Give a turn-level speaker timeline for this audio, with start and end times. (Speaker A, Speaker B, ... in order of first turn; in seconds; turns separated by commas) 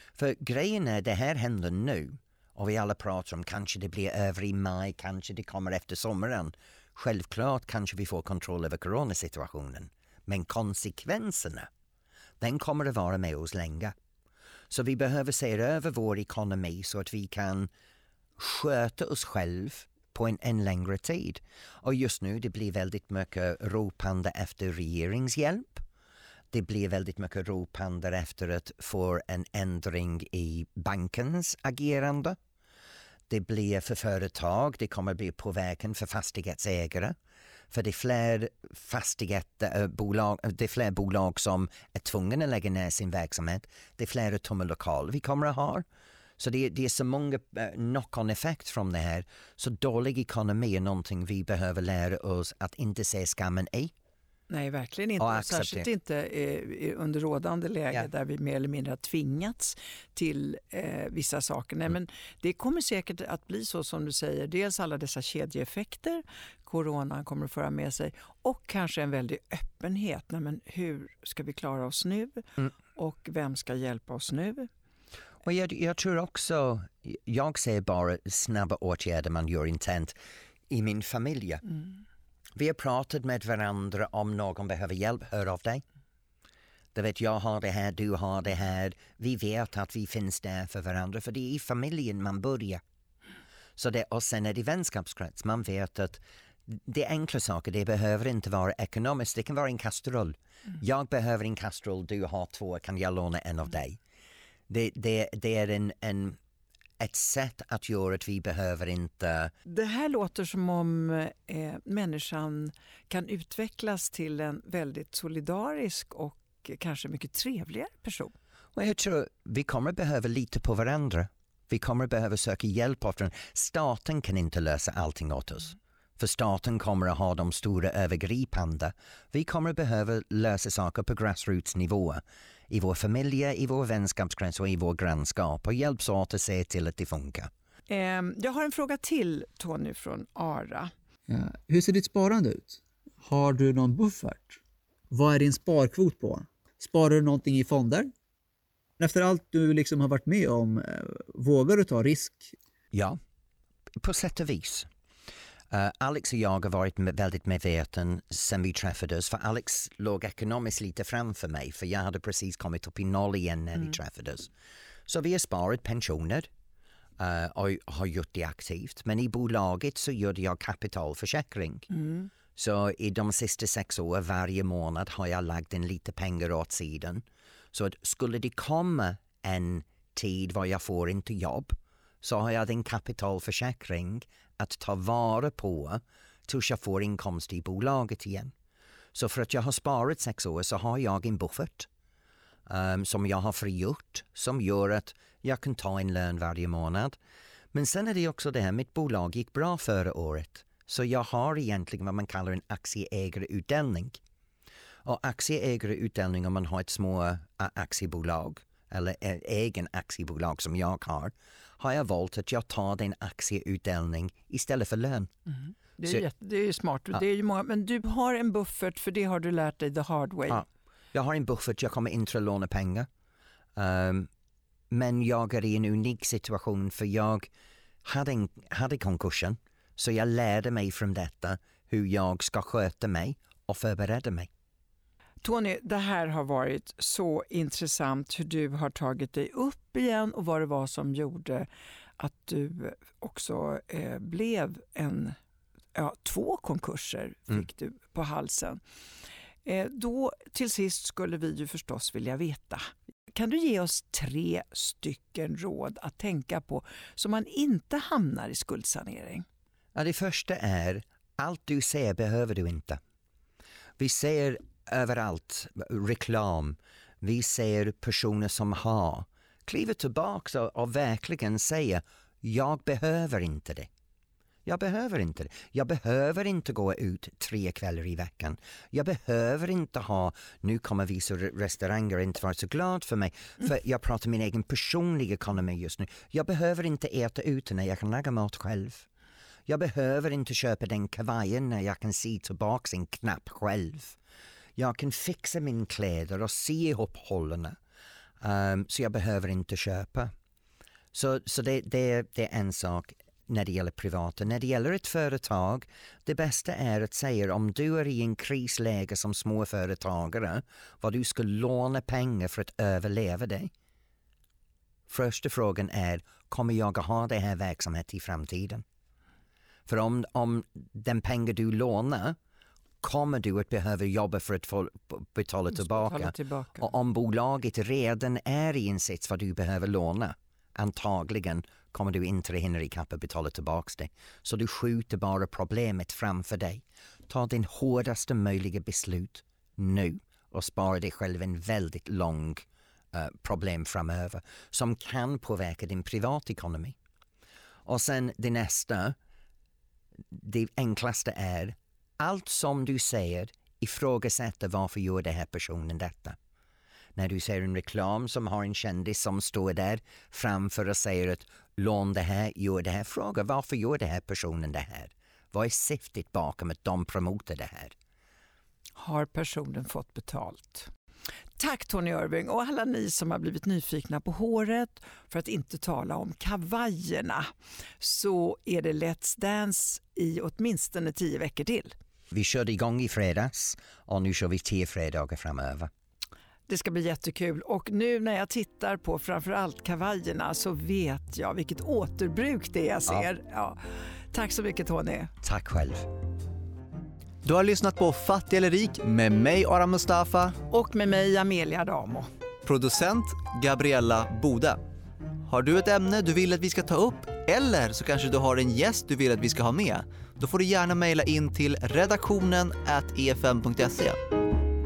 Speaker A: 0.1-11.7, Speaker A: 12.4-13.9, Speaker A: 14.7-17.7, Speaker A: 18.4-25.8, Speaker A: 26.5-32.4, Speaker A: 33.3-37.1, Speaker A: 37.7-45.8, Speaker A: 46.4-53.9, Speaker B: 54.5-74.7, Speaker A: 55.2-55.9, Speaker A: 75.4-80.1, Speaker A: 80.7-81.6, Speaker A: 82.5-85.8, Speaker A: 86.9-92.8, Speaker A: 93.8-104.0, Speaker A: 104.7-106.4, Speaker A: 107.0-109.5, Speaker B: 109.7-118.3, Speaker A: 118.7-137.5, Speaker B: 137.9-140.9, Speaker C: 141.3-144.6, Speaker C: 145.1-148.1, Speaker C: 149.0-152.5, Speaker A: 152.9-153.2, Speaker A: 154.0-154.9, Speaker A: 155.7-164.5, Speaker A: 165.1-166.5, Speaker A: 167.2-171.9, Speaker B: 172.0-172.3, Speaker A: 172.6-188.5, Speaker A: 189.1-191.9, Speaker A: 192.7-197.2, Speaker A: 197.7-204.2, Speaker A: 205.0-215.3, Speaker B: 216.0-220.6, Speaker A: 220.5-223.1, Speaker A: 223.8-224.3, Speaker A: 224.9-227.5, Speaker A: 228.0-234.5, Speaker B: 235.4-241.7, Speaker B: 242.2-245.3, Speaker B: 245.9-248.8, Speaker B: 249.6-259.4, Speaker A: 259.9-263.0, Speaker A: 264.0-273.9, Speaker A: 274.6-289.1, Speaker A: 289.7-294.2, Speaker A: 294.8-297.8, Speaker A: 298.4-300.3, Speaker A: 301.1-313.7, Speaker A: 315.1-318.8, Speaker A: 319.9-322.4, Speaker A: 323.0-346.9, Speaker B: 325.8-326.9, Speaker A: 347.9-349.2, Speaker A: 350.3-356.4, Speaker A: 357.1-367.9, Speaker B: 369.0-370.9, Speaker B: 371.6-381.9, Speaker A: 382.3-385.9, Speaker B: 386.7-395.3, Speaker A: 395.4-396.1, Speaker D: 397.4-400.6, Speaker B: 400.7-402.3, Speaker D: 402.6-404.8, Speaker D: 405.4-414.2